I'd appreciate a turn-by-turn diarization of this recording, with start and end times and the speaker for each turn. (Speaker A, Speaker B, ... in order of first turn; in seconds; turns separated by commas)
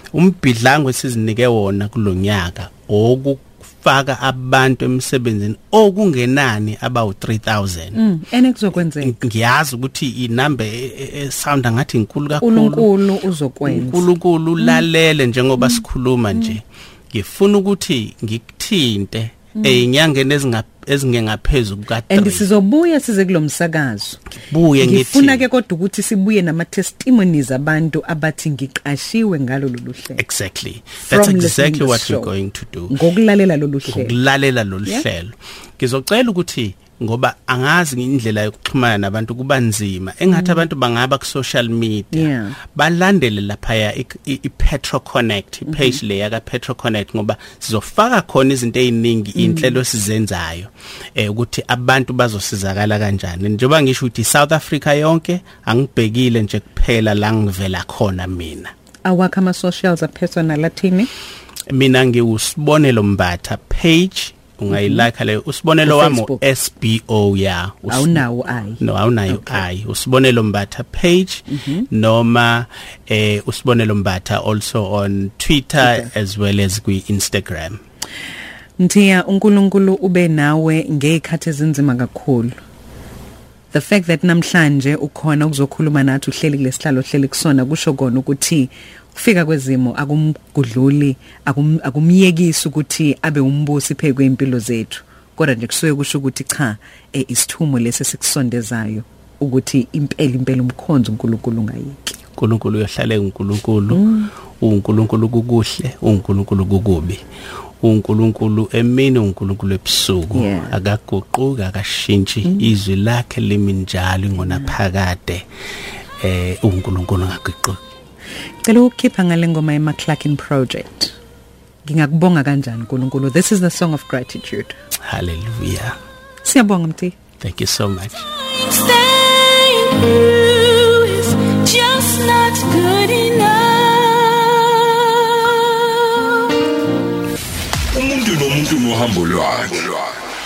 Speaker A: 0.1-8.0, Speaker B: 7.9-9.2, Speaker A: 9.0-12.9, Speaker B: 12.4-14.1, Speaker A: 13.7-22.5, Speaker B: 22.1-24.2, Speaker A: 24.4-25.4, Speaker B: 24.8-30.2, Speaker A: 30.2-33.0, Speaker B: 31.1-32.3, Speaker B: 32.9-34.2, Speaker A: 33.9-58.7, Speaker B: 40.3-40.6, Speaker B: 42.1-42.6, Speaker B: 45.7-46.0, Speaker B: 49.4-49.8, Speaker B: 59.0-61.1, Speaker A: 61.7-68.2, Speaker B: 64.7-65.1, Speaker B: 65.8-66.4, Speaker B: 67.9-69.6, Speaker A: 68.8-77.8, Speaker B: 71.5-71.9, Speaker B: 75.8-76.1, Speaker B: 78.8-82.6, Speaker B: 83.7-102.2, Speaker A: 102.4-104.1, Speaker B: 103.9-104.3, Speaker A: 104.6-107.2, Speaker A: 107.8-115.5, Speaker B: 110.3-110.8, Speaker A: 116.2-117.9, Speaker B: 118.6-121.2, Speaker B: 121.8-124.8, Speaker A: 125.0-126.0, Speaker B: 126.4-127.2, Speaker A: 127.4-128.3, Speaker C: 128.4-136.1, Speaker D: 137.9-140.2